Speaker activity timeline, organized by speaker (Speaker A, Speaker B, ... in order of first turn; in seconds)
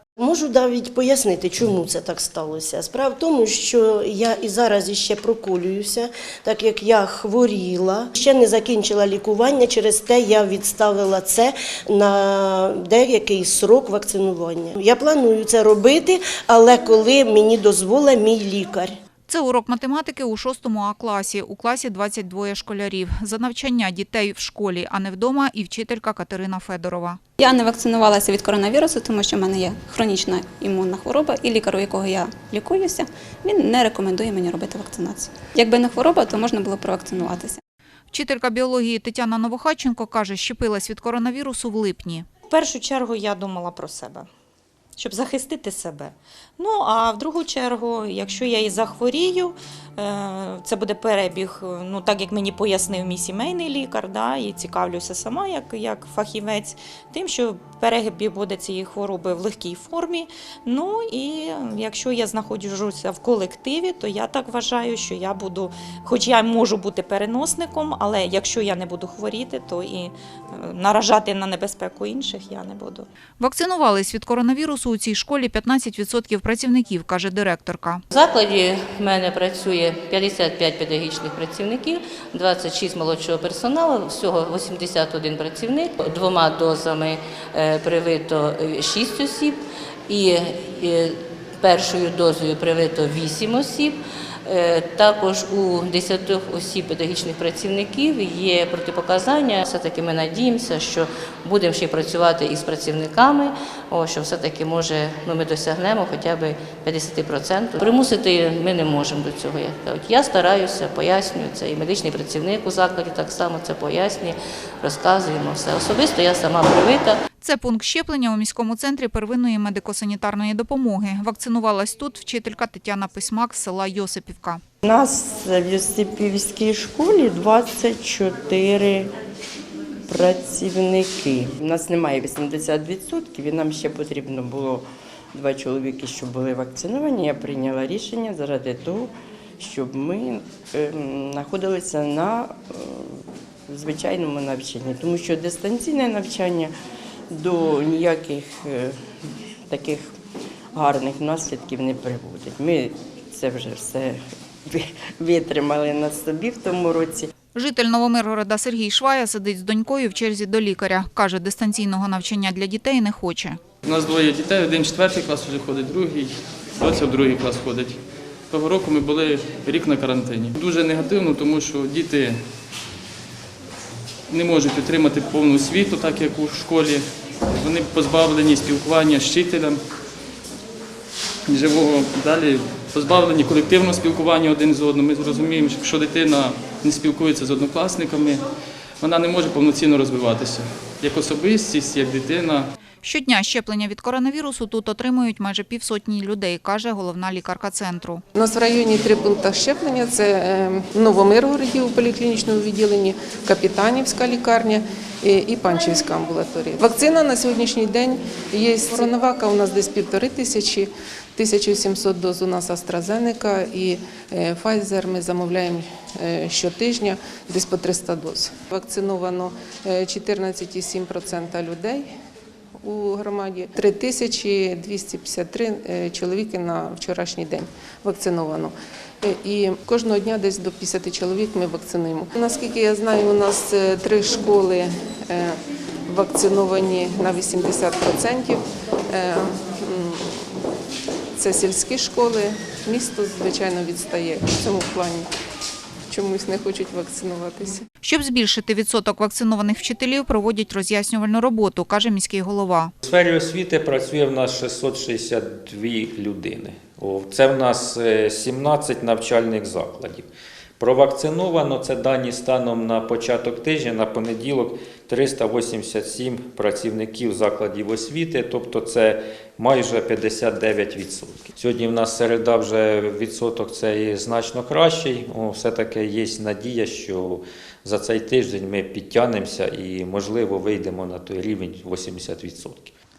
Speaker A: 0.2-19.0
Speaker B: 19.3-27.2, 38.1-42.3, 73.4-78.0, 117.4-124.6, 157.6-163.6, 193.0-198.2, 248.0-252.9
Speaker C: 27.4-37.6
Speaker D: 42.5-44.3, 45.0-73.1
Speaker E: 78.1-117.2
Speaker F: 124.8-129.1, 130.1-146.7, 147.3-148.9, 149.7-150.1, 150.8-157.3
Speaker G: 163.8-168.0, 168.5-172.5, 174.3-179.8, 181.5-188.4, 189.0-192.7
Speaker H: 198.3-222.1, 222.8-240.6, 241.4-245.3, 246.1-247.8
Speaker I: 253.0-282.9